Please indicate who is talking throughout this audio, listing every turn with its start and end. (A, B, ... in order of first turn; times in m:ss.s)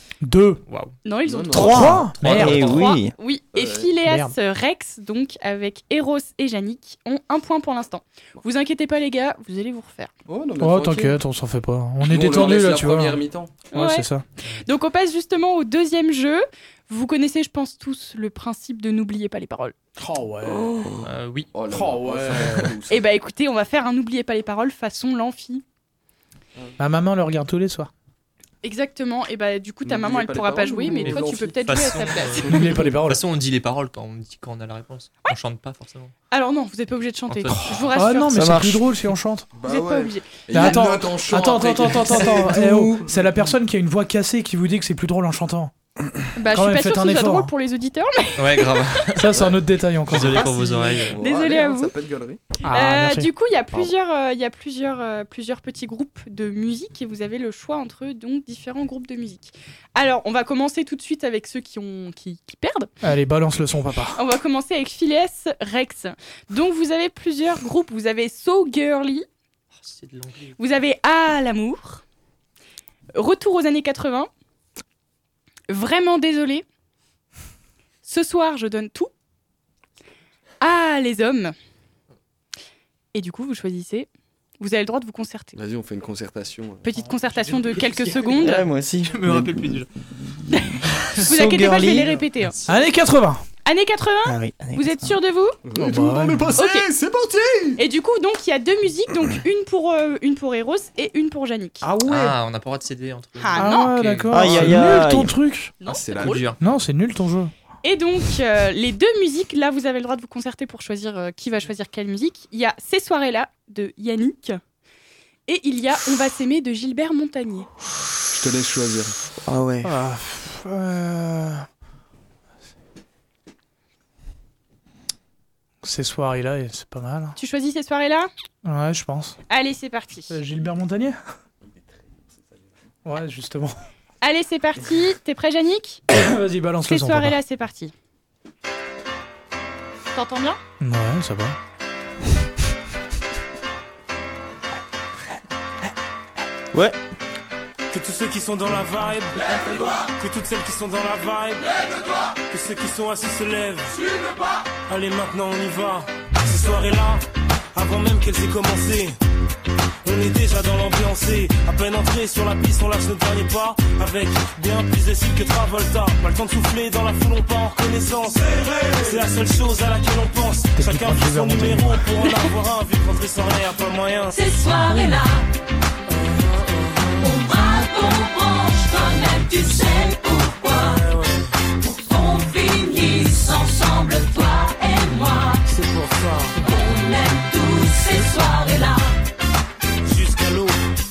0:00.2-0:00.6 A
0:00.7-0:00.9 B
0:01.0-0:10.1 C
0:01.2-0:02.1 D
0:01.5-0:03.1 E
0:01.6-0:02.8 A
0:02.2-0:02.9 B
0:03.5-0:03.9 D
0:04.0-0:04.4 A
0:10.3-0:11.2 D
0:10.6-0:14.2 A
0:12.0-0:13.6 D
0:13.7-0:14.1 C
0:14.6-0:19.8 C
0:20.0-0:20.7 A
0:20.4-0:23.0 D
0:21.0-0:21.5 B
0:21.7-0:22.7 A
0:22.9-0:25.6 C
0:26.8-0:27.9 A
0:28.6-0:32.8 C
0:29.8-0:32.9 D
0:31.0-0:36.1 B
0:32.5-0:33.2 A
0:36.3-0:38.4 C
0:37.3-0:37.9 B
0:37.9-0:39.5 A
0:38.3-0:38.9 E
0:39.5-0:42.9 D
0:39.6-0:40.9 C
0:40.5-0:45.7 A
0:42.5-0:43.0 E
0:46.4-0:49.0 C
0:46.5-0:47.5 A
0:48.4-0:49.4 B
0:49.2-0:50.6 A
0:49.4-0:52.4 D
0:50.1-0:51.2 B
0:50.4-0:51.9 C
0:52.6-0:53.3 A
0:52.7-1:02.9 C
1:03.0-1:04.2 A
1:04.1-1:09.3 C
1:09.8-1:10.6 B
1:10.6-1:12.0 C
1:13.1-1:14.3 C
1:15.7-1:16.6 C
1:18.0-1:19.1 C
1:20.6-1:21.6 C
1:23.1-1:24.1 C
1:24.6-1:25.6 C
1:25.6-1:26.9 D
1:26.8-1:28.7 C
1:28.2-1:32.2 E
1:29.0-1:29.9 B
1:30.5-1:32.6 C
1:32.6-1:33.4 A
1:33.6-1:35.6 C
1:34.2-1:35.2 E
1:35.6-1:37.8 D
1:35.8-1:36.5 A
1:36.6-1:36.9 C
1:37.8-1:41.8 C
1:41.8-1:42.4 A
1:42.0-1:44.4 B
1:43.4-1:43.9 C
1:43.6-1:45.8 A
1:44.3-1:45.4 E
1:44.5-1:44.8 D
1:45.8-1:46.5 C
1:45.8-1:46.5 D
1:46.2-1:46.6 B
1:46.6-1:47.5 A
1:47.8-1:54.6 C
1:55.5-1:57.7 C
1:58.3-1:59.1 D
1:59.4-1:59.9 E
1:59.8-2:01.6 A
2:05.8-2:07.4 A
2:07.4-2:08.3 C
2:08.6-2:09.4 A
2:09.5-2:10.4 C
2:10.3-2:11.2 A
2:11.9-2:12.7 D
2:13.0-2:13.7 A
2:14.2-2:16.0 C
2:16.1-2:17.4 A
2:16.8-2:17.9 C
2:20.1-2:20.6 C
2:20.8-2:21.6 A
2:27.9-2:31.7 F
2:32.5-2:34.0 F
2:34.9-2:37.2 F
2:37.7-2:39.2 F
2:40.0-2:54.4 F
2:50.8-2:52.0 A
2:52.2-2:52.5 C
2:54.3-2:55.4 G
2:56.1-2:57.0 F
2:57.2-3:01.0 G
3:00.8-3:01.5 F
3:01.8-3:05.6 G
3:05.7-3:06.6 F
3:06.6-3:09.1 G
3:10.1-3:10.8 F